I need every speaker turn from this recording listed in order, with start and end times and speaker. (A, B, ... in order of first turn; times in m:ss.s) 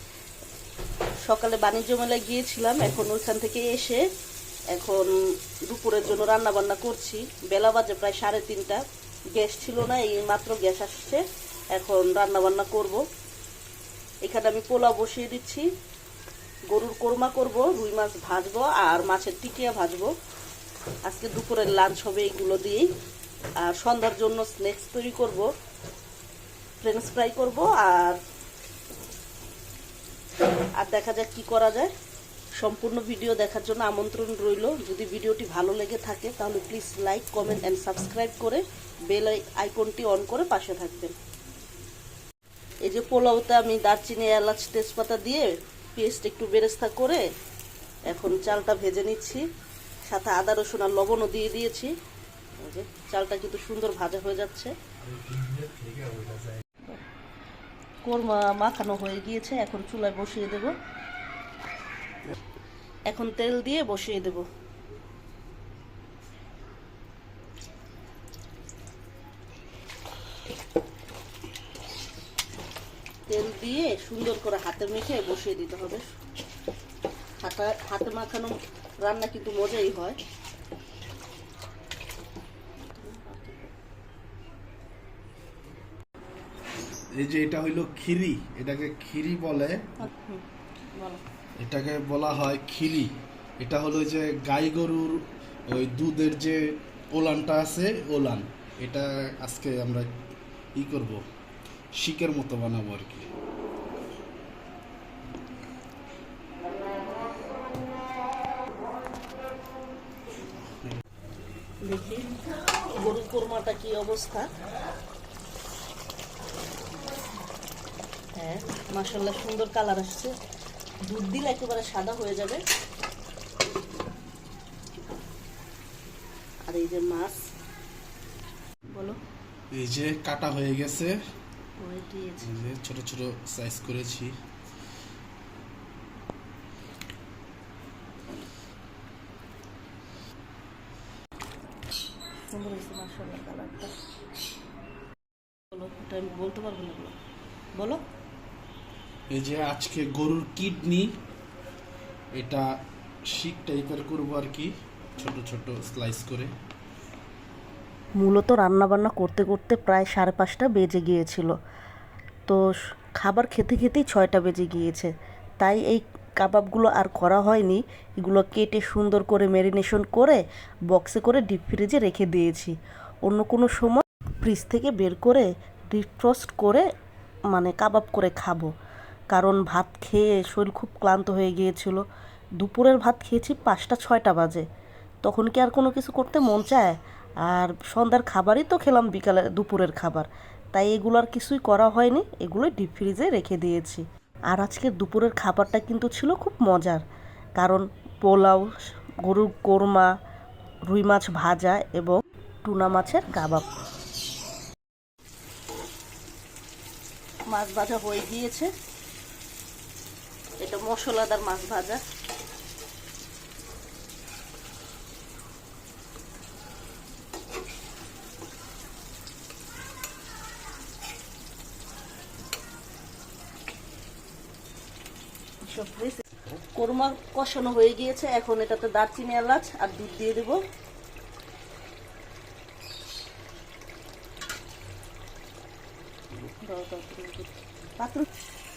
0:01.2-0:04.0 A
0:04.7-0:05.1 A
0:05.6-0:08.8 A
0:09.3-0:11.2 A
0:11.7-0:13.0 A
0:14.2-0:15.7 A
0:16.7-0:20.1 A
0:21.0-0:22.9 A
0:23.6-0:25.5 A
0:26.8-0:28.2 A
0:30.8-0:31.9 A
0:32.6-0:41.1 A
0:42.8-0:47.2 A
0:48.1-0:49.4 A
0:50.1-0:51.9 A
0:52.6-0:54.7 A
0:55.0-0:56.6 B
0:58.0-1:00.8 A
1:03.1-1:04.5 A
1:13.3-1:16.0 A
1:17.4-1:20.2 A
1:22.9-1:23.7 A
1:27.2-1:29.9 B
1:30.0-1:30.4 A
1:30.9-1:31.2 A
1:31.6-1:40.1 B
1:40.8-1:41.2 B
1:42.0-1:43.3 B
1:51.8-1:54.5 A
1:58.4-2:00.3 A
2:01.1-2:02.6 A
2:06.7-2:07.4 A
2:08.9-2:09.2 A
2:09.7-2:11.2 B
2:11.8-2:12.5 A
2:12.4-2:14.3 B
2:22.5-2:23.9 A
2:25.7-2:27.1 A
2:29.3-2:31.1 B
2:32.4-2:32.7 B
2:33.3-2:36.5 B
2:38.2-2:41.5 A
2:43.2-2:56.8 A
2:57.5-2:58.7 A
2:59.3-3:02.0 A
3:02.6-3:04.6 A
3:05.2-3:17.0 A
3:17.6-3:18.7 A
3:19.2-3:20.1 A
3:20.9-3:23.6 A
3:27.5-3:28.7 A
3:30.6-3:32.0 A
3:45.7-3:50.6 A
3:56.6-3:58.2 A